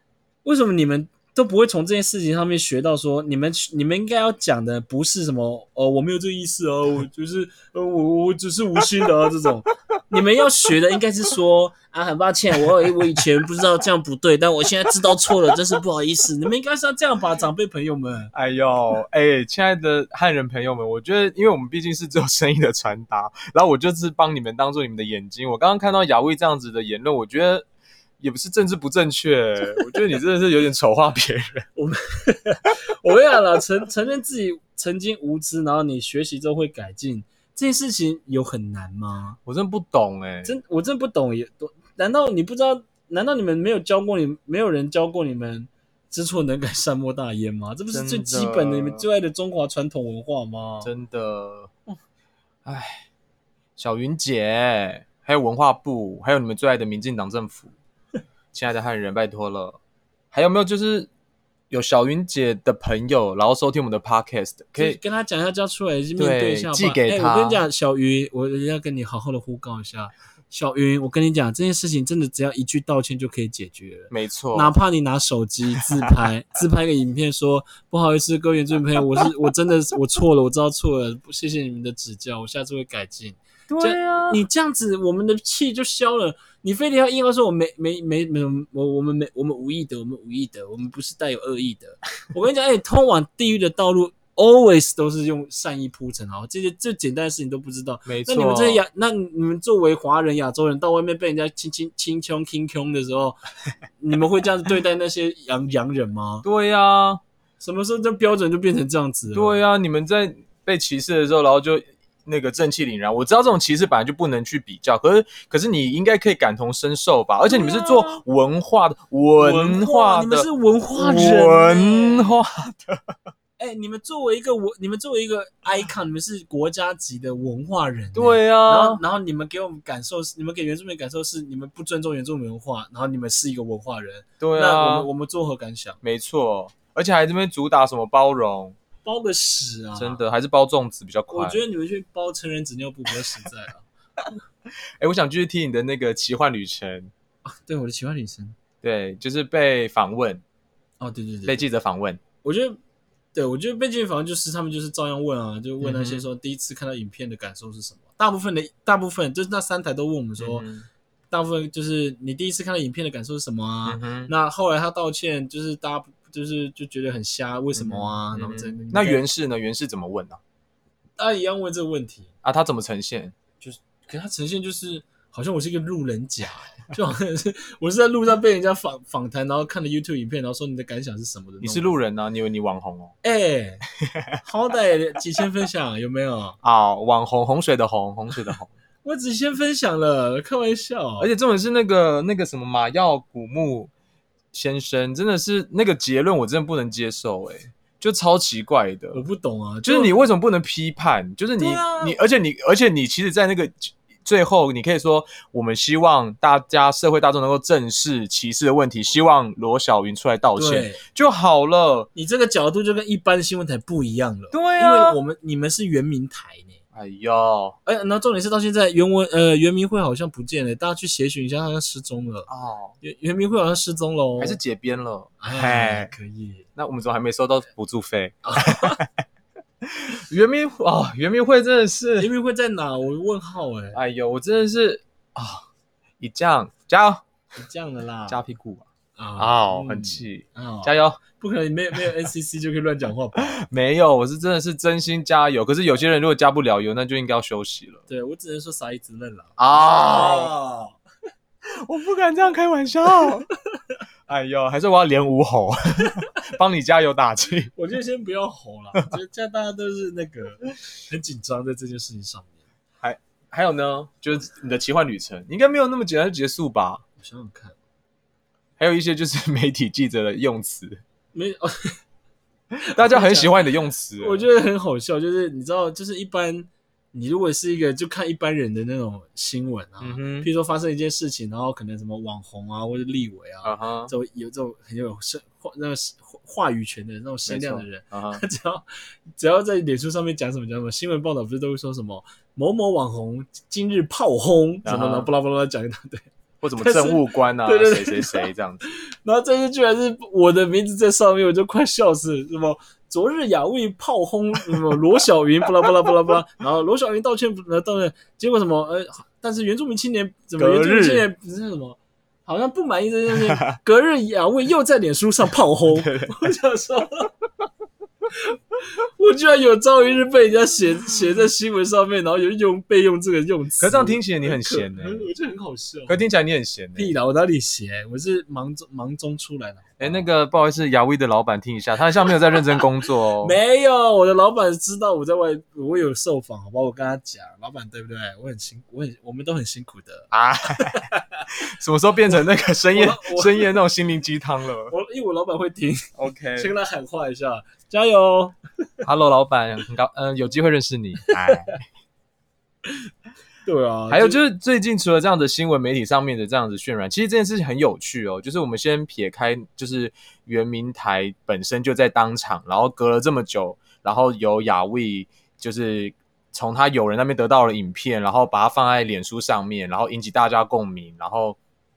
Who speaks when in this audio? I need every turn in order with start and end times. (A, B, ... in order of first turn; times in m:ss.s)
0:00.4-0:18.3 A
0:18.3-0:27.6 B
0:28.2-0:31.7 B
0:31.8-0:39.4 A
0:39.5-0:40.5 B
0:40.4-0:50.9 A
0:47.9-0:49.0 B
0:50.8-0:51.7 B
0:52.6-0:53.1 B
0:53.8-0:57.7 B
0:58.5-0:59.8 B
1:00.3-1:01.1 B
1:01.7-1:05.0 B
1:04.8-1:43.4 A
1:06.2-1:07.6 B
1:14.1-1:14.7 B
1:23.7-1:24.4 B
1:38.1-1:38.8 B
1:44.0-1:46.5 A
1:46.4-1:47.2 B
1:47.6-1:49.6 A
1:49.3-2:03.2 B
1:57.4-1:58.2 A
1:59.4-2:02.4 A
2:03.6-2:16.0 A
2:08.2-2:09.0 B
2:14.4-2:15.1 B
2:16.0-2:18.8 B
2:19.0-2:20.2 A
2:20.0-2:21.6 B
2:21.3-2:23.9 A
2:25.0-2:27.1 B
2:27.4-2:28.6 A
2:28.8-2:30.4 B
2:31.0-2:31.6 A
2:31.4-2:32.2 B
2:32.4-2:32.8 A
2:33.4-2:40.7 A
2:35.8-2:36.3 B
2:40.4-2:40.9 B
2:41.3-2:49.2 A
2:43.9-2:44.3 B
2:47.8-2:50.4 B
2:51.2-2:52.3 A
2:52.4-2:53.4 B
2:53.6-3:02.0 A
3:01.6-3:03.1 B
3:03.2-3:03.8 A
3:04.4-3:06.6 A
3:06.6-3:08.7 B
3:09.0-3:11.3 A
3:11.2-3:13.9 B
3:14.5-3:19.2 B
3:19.1-3:20.2 A
3:19.8-3:32.1 B
3:21.6-3:22.2 A
3:30.6-3:31.0 A
3:32.2-3:36.8 A
3:34.5-3:35.2 B
3:36.9-3:37.8 B
3:37.9-3:42.5 A
3:42.5-3:43.0 B
3:43.0-3:44.6 A
3:44.4-3:46.1 B
3:45.4-3:46.7 A
3:46.8-3:49.1 B
3:48.4-3:49.0 A
3:49.8-3:52.3 B
3:52.2-3:54.0 A
3:53.9-3:55.7 B
3:56.2-3:57.2 B
3:57.6-3:58.4 A
3:58.3-3:58.9 B
3:59.2-4:03.6 A
3:59.4-4:01.2 B
4:03.5-4:08.0 B
4:08.1-4:11.0 A
4:09.6-4:10.5 B
4:11.7-4:13.5 B
4:14.3-4:17.7 B
4:17.8-4:22.6 A
4:23.0-4:27.0 B
4:27.2-4:27.8 A
4:28.8-4:31.0 B
4:31.3-4:32.0 A
4:32.8-4:34.4 B
4:32.9-4:33.6 A
4:34.2-5:17.3 A
4:40.0-4:40.5 B
4:43.6-4:44.1 B
4:47.5-4:48.4 B
4:54.8-4:55.3 B
4:56.6-4:58.8 B
5:10.6-5:11.3 B
5:16.0-5:16.3 B
5:19.2-5:26.2 A
5:23.8-5:25.3 B
5:26.1-5:27.1 B
5:27.0-5:30.3 A
5:30.0-5:33.6 B
5:33.4-5:40.3 A
5:40.3-5:41.0 B
5:40.8-5:41.4 A
5:41.6-5:44.9 B
5:42.9-5:43.8 A
5:44.9-5:48.6 A
5:46.2-5:46.7 B
5:49.0-5:51.8 B
5:53.6-5:54.4 A
5:54.1-6:11.6 B